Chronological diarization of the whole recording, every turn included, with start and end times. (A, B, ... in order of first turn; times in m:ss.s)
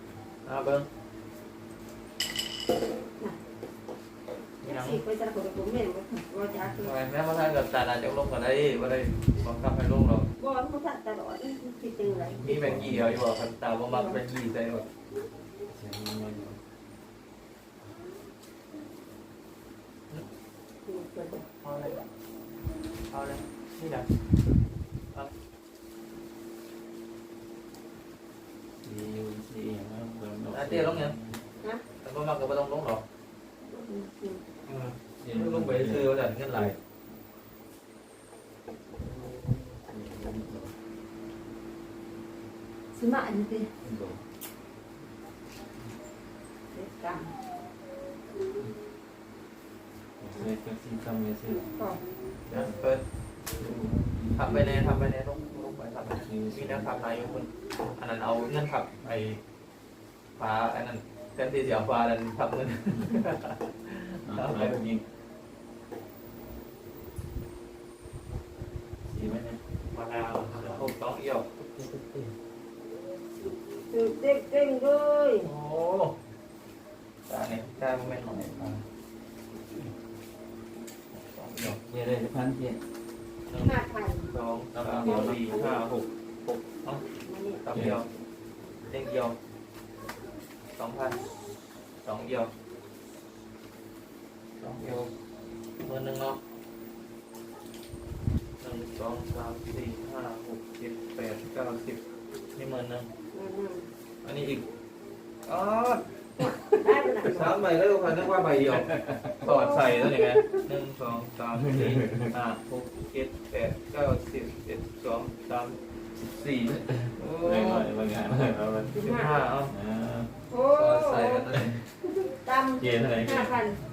0:00.4-0:00.9 A
0:04.6-0:05.0 A
0:04.6-0:07.0 B
0:06.7-0:10.3 A
0:10.4-0:12.6 B
0:12.0-0:13.3 C
0:12.4-0:14.9 A
0:13.9-0:14.2 B
0:15.7-0:16.6 C
0:20.9-0:21.4 B
0:21.6-0:22.0 A
0:23.1-0:24.1 A
0:28.8-0:31.4 C
0:30.5-0:31.2 A
0:32.0-0:33.0 A
0:33.7-0:34.4 B
0:34.7-0:36.8 A
0:35.2-0:36.8 C
0:39.0-0:40.7 C
0:42.9-0:43.7 B
0:43.8-0:44.2 C
0:46.7-0:47.3 B
0:50.2-0:51.7 C
0:51.5-0:52.0 B
0:52.5-0:53.0 A
0:53.5-0:54.9 C
0:54.4-0:59.4 A
0:56.1-0:57.3 C
1:00.4-1:04.8 A
1:02.9-1:03.2 C
1:04.3-1:05.0 C
1:09.1-1:09.6 C
1:09.9-1:11.5 A
1:10.4-1:10.9 C
1:11.6-1:12.3 C
1:13.9-1:15.5 B
1:15.4-1:16.2 A
1:17.3-1:18.8 A
1:21.1-1:21.8 A
1:21.6-1:22.8 C
1:23.5-1:27.0 A
1:23.6-1:24.3 B
1:24.7-1:25.5 C
1:25.0-1:25.8 B
1:27.2-1:27.6 B
1:27.6-1:28.1 A
1:27.7-1:28.0 C
1:28.9-1:29.4 A
1:30.8-1:31.2 A
1:32.0-1:32.5 A
1:34.6-1:35.1 A
1:35.8-1:36.4 A
1:38.6-1:42.0 A
1:42.6-1:43.1 A
1:43.3-1:43.9 B
1:44.2-1:44.7 A
1:45.5-1:57.9 A
1:46.4-1:47.6 B
1:48.7-1:49.4 C
1:49.4-1:50.6 B
1:51.6-1:52.3 C
1:56.9-1:59.1 C
1:58.9-1:59.4 B
1:59.0-1:59.8 A
1:59.7-2:00.4 C
2:00.5-2:01.5 B
2:00.7-2:01.8 A
2:02.2-2:03.8 B
2:02.8-2:03.6 C